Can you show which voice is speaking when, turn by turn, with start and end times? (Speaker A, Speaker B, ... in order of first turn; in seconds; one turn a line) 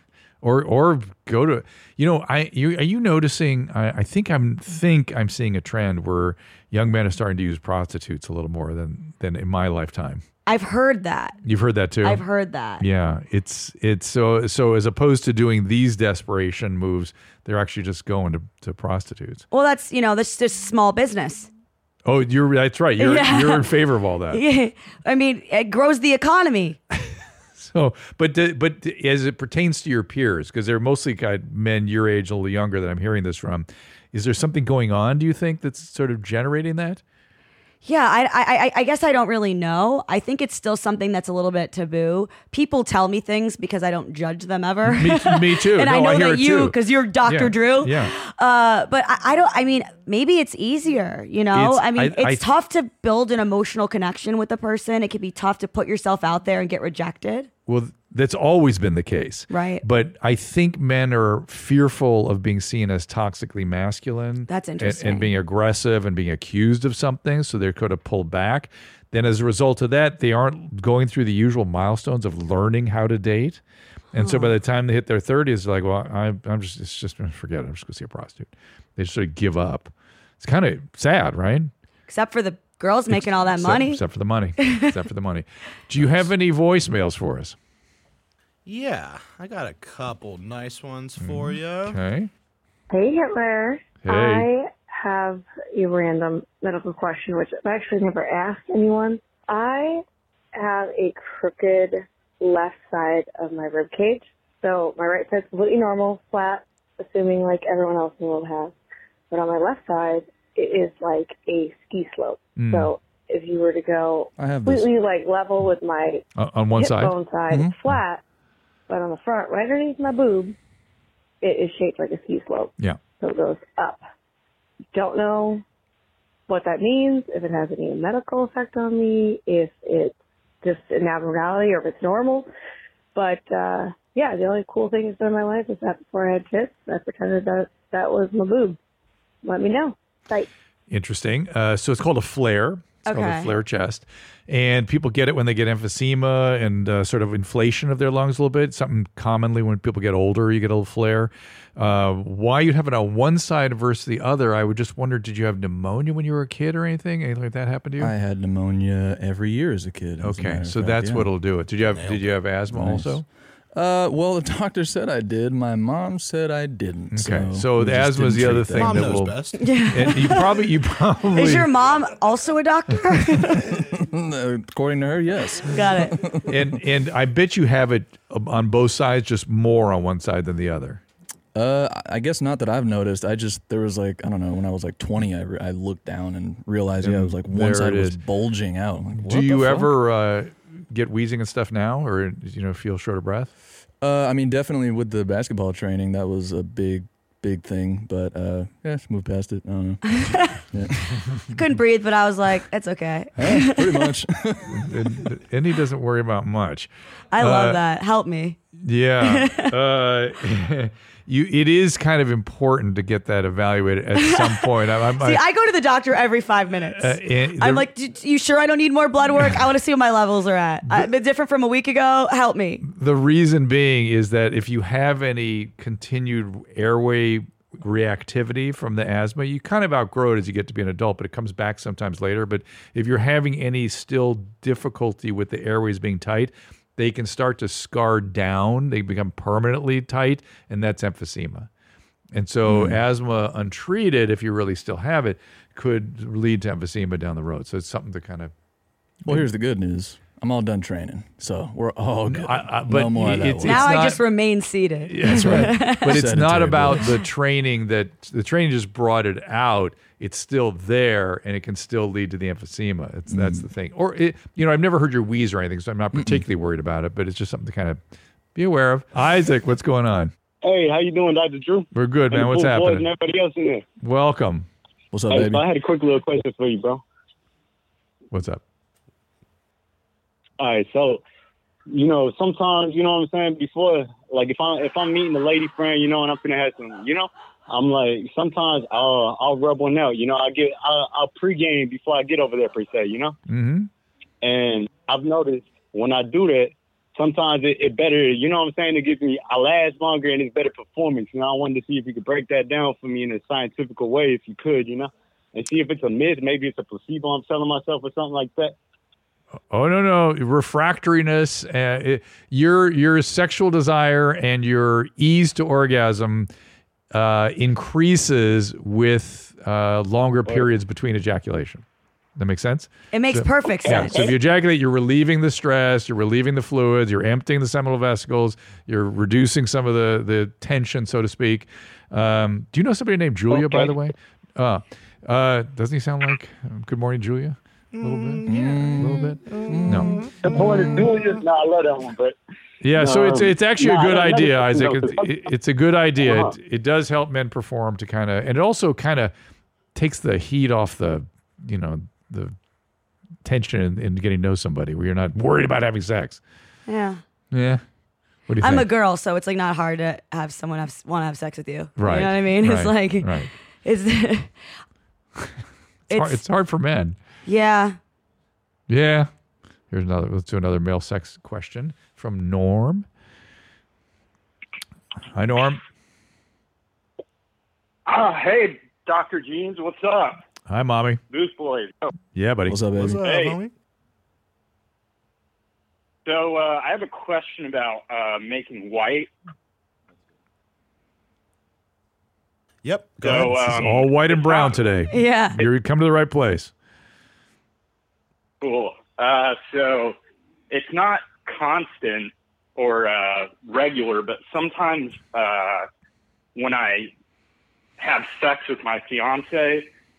Speaker A: 0.4-10.2
Speaker B: 10.4-11.4
Speaker A: 11.4-12.2
Speaker B: 12.0-12.8
Speaker A: 12.8-19.4
Speaker B: 19.5-21.5
Speaker A: 22.1-24.4
Speaker B: 23.0-23.7
Speaker B: 24.3-26.8
Speaker A: 27.6-37.0
Speaker B: 37.8-57.5
Speaker A: 44.9-48.1
Speaker A: 51.5-52.4
Speaker A: 57.7-73.6
Speaker B: 59.5-59.8
Speaker B: 64.5-65.3
Speaker A: 74.1-81.7
Speaker B: 74.2-74.5
Speaker B: 82.1-84.0
Speaker A: 83.1-87.5
Speaker B: 84.6-84.9
Speaker C: 88.7-92.0
Speaker A: 91.2-92.3
Speaker D: 92.9-100.0
Speaker A: 94.0-94.5
Speaker D: 100.5-108.7
Speaker D: 109.3-116.2
Speaker A: 112.6-112.9
Speaker E: 114.4-114.9
Speaker A: 116.3-117.2
Speaker D: 116.8-118.2
Speaker D: 118.9-120.5
Speaker D: 121.4-124.0
Speaker D: 124.9-125.6
Speaker D: 126.5-132.5
Speaker D: 133.1-138.8
Speaker D: 139.4-140.5
Speaker A: 140.9-158.1
Speaker B: 143.1-143.5
Speaker E: 158.0-161.3
Speaker A: 160.2-163.2
Speaker C: 161.8-162.3
Speaker E: 162.7-163.2
Speaker E: 163.7-169.2
Speaker A: 167.1-171.7
Speaker C: 168.7-169.7
Speaker B: 169.6-170.5
Speaker B: 171.3-173.7
Speaker E: 173.8-176.6
Speaker B: 175.7-176.2
Speaker A: 176.5-181.0
Speaker E: 181.5-189.9
Speaker A: 187.0-188.2
Speaker A: 189.2-193.5
Speaker E: 194.0-201.2
Speaker B: 200.1-200.6
Speaker B: 201.5-204.1
Speaker E: 203.4-205.0
Speaker A: 204.7-207.8
Speaker B: 207.3-208.6
Speaker A: 208.8-215.4
Speaker B: 209.2-209.7
Speaker B: 214.1-214.7
Speaker B: 215.2-222.8
Speaker A: 216.9-217.9
Speaker A: 222.8-241.7
Speaker A: 242.3-248.5
Speaker E: 242.7-243.0
Speaker E: 249.2-254.0
Speaker A: 252.2-254.2
Speaker B: 253.6-256.1
Speaker A: 255.1-268.0
Speaker E: 255.3-257.2
Speaker E: 263.3-263.7
Speaker E: 266.1-266.4
Speaker A: 268.5-270.3
Speaker F: 270.6-273.8
Speaker A: 271.9-273.1
Speaker A: 274.0-274.7
Speaker E: 275.1-275.7
Speaker F: 275.3-277.0
Speaker A: 278.3-278.6
Speaker F: 280.6-281.2
Speaker F: 281.9-293.4
Speaker A: 293.5-293.9
Speaker F: 294.4-308.7
Speaker A: 309.7-316.5
Speaker A: 317.1-321.8
Speaker A: 322.4-340.2
Speaker B: 323.1-324.2
Speaker F: 333.5-333.9
Speaker C: 337.9-341.3
Speaker E: 338.4-341.1
Speaker F: 340.4-342.4
Speaker A: 342.8-349.3
Speaker F: 342.9-345.4
Speaker F: 346.2-346.6
Speaker A: 349.9-352.5
Speaker A: 353.4-356.4
Speaker B: 356.9-357.2
Speaker A: 357.5-357.8
Speaker A: 358.5-358.9
Speaker B: 358.6-364.5
Speaker A: 362.0-363.5
Speaker B: 366.1-366.4
Speaker A: 366.1-367.2
Speaker B: 367.4-368.0
Speaker A: 368.9-369.3
Speaker A: 369.9-373.1
Speaker A: 375.3-375.8
Speaker G: 378.1-380.4
Speaker A: 380.7-381.2
Speaker G: 381.3-382.1
Speaker A: 382.3-382.8
Speaker E: 382.7-383.2
Speaker C: 382.9-383.7
Speaker G: 383.3-383.5
Speaker G: 386.2-389.3
Speaker C: 392.8-393.8
Speaker G: 393.2-394.7
Speaker A: 393.5-396.7
Speaker B: 395.1-395.6
Speaker G: 398.6-400.1
Speaker G: 400.7-405.9
Speaker G: 406.6-407.1
Speaker G: 408.0-409.9